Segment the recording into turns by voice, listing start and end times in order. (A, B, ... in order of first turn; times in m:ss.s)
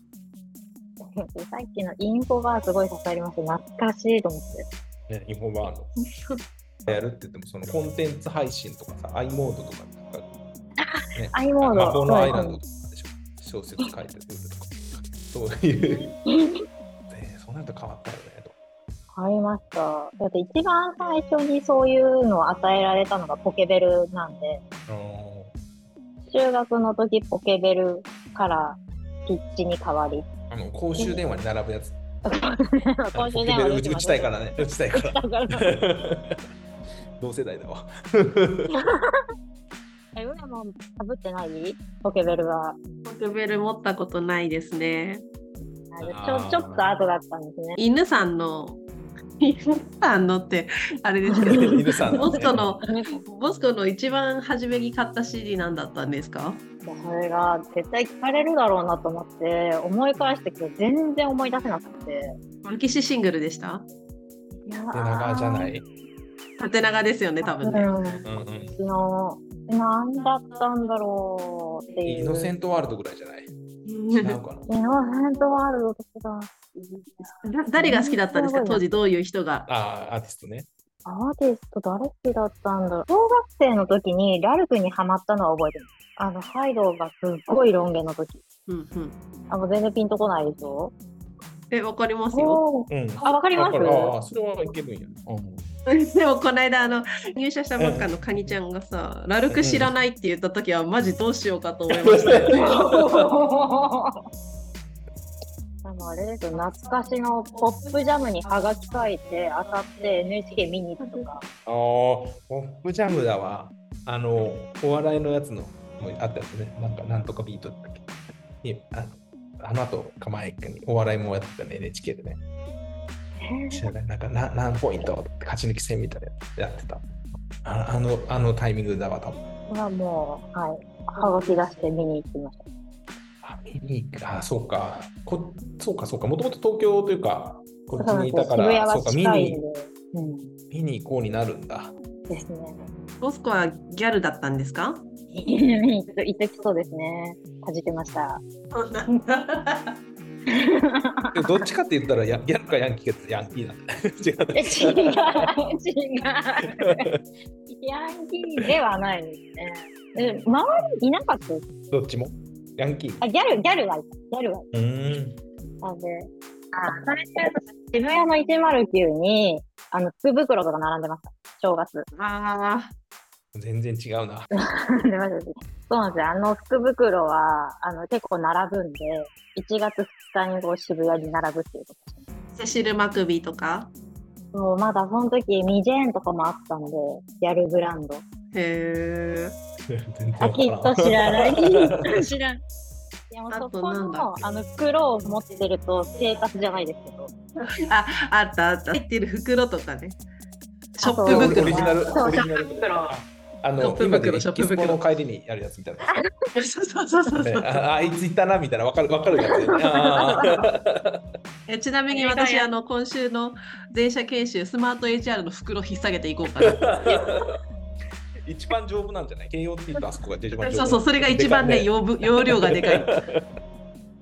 0:01.0-0:04.6 A
0:05.1-0:05.9 B
0:06.8-0:10.3 B
0:10.8-0:12.6 A
0:11.1-0:16.1 B
0:15.9-0:16.6 A
0:17.1-0:18.5 B
0:19.1-0:24.6 A
0:24.9-0:25.5 B
0:26.3-0:30.3 A
0:30.5-0:32.0 B
0:31.0-0:31.2 A
0:32.2-0:35.8 A
0:33.1-0:36.5 B
0:37.2-0:38.7 B
0:38.7-0:39.2 A
0:40.1-0:42.8 A
0:43.0-0:45.2 C
0:45.9-0:47.8 A
0:46.0-0:46.9 B
0:47.8-0:48.8 C
0:49.4-0:56.6 C
0:51.4-0:53.2 A
0:51.4-0:52.8 B
0:56.8-1:02.4 A
1:02.6-1:03.8 C
1:04.6-1:05.7 A
1:04.9-1:05.8 B
1:06.6-1:07.9 C
1:07.4-1:12.5 A
1:08.2-1:08.8 B
1:12.0-1:13.5 B
1:13.8-1:14.4 C
1:14.1-1:14.7 B
1:14.7-1:16.5 A
1:17.4-1:19.7 C
1:17.8-1:18.8 A
1:19.7-1:20.7 B
1:21.0-1:28.4 A
1:28.7-1:29.2 C
1:29.5-1:30.9 A
1:31.7-1:32.6 C
1:32.3-1:34.1 A
1:32.9-1:35.7 B
1:35.8-1:42.7 C
1:37.8-1:38.5 B
1:39.5-1:39.9 B
1:42.0-1:43.3 B
1:42.5-1:44.2 A
1:45.8-1:51.4 A
1:51.6-1:58.1 B
1:58.6-2:02.4 B
2:03.4-2:03.8 A
2:03.7-2:07.0 B
2:07.6-2:09.4 B
2:09.7-2:12.6 A
2:13.4-2:19.6 B
2:18.0-2:20.5 A
2:20.7-2:21.9 B
2:22.3-2:22.8 A
2:23.2-2:25.0 C
2:25.3-2:28.4 A
2:28.7-2:30.0 C
2:30.5-2:31.6 A
2:31.3-2:35.5 B
2:34.5-2:37.1 A
2:36.6-2:37.2 B
2:37.7-2:41.7 A
2:41.9-2:43.2 B
2:43.2-2:44.7 A
2:44.7-2:45.4 B
2:45.8-2:52.1 A
2:52.1-2:52.9 C
2:53.5-2:54.5 B
2:54.6-3:02.2 A
3:02.6-3:03.9 C
3:04.5-3:08.2 A
3:08.5-3:09.6 C
3:09.9-3:12.2 B
3:10.4-3:12.6 A
3:13.3-3:17.3 A
3:13.5-3:14.3 C
3:17.8-3:20.2 C
3:21.0-3:23.1 C
3:21.0-3:22.4 A
3:21.3-3:26.1 B
3:23.8-3:25.0 C
3:26.5-3:27.8 C
3:27.4-3:31.2 B
3:29.5-3:30.6 A
3:31.7-3:37.2 C
3:32.1-3:32.7 A
3:36.6-3:37.6 B
3:38.4-3:43.4 B
3:40.6-3:43.1 C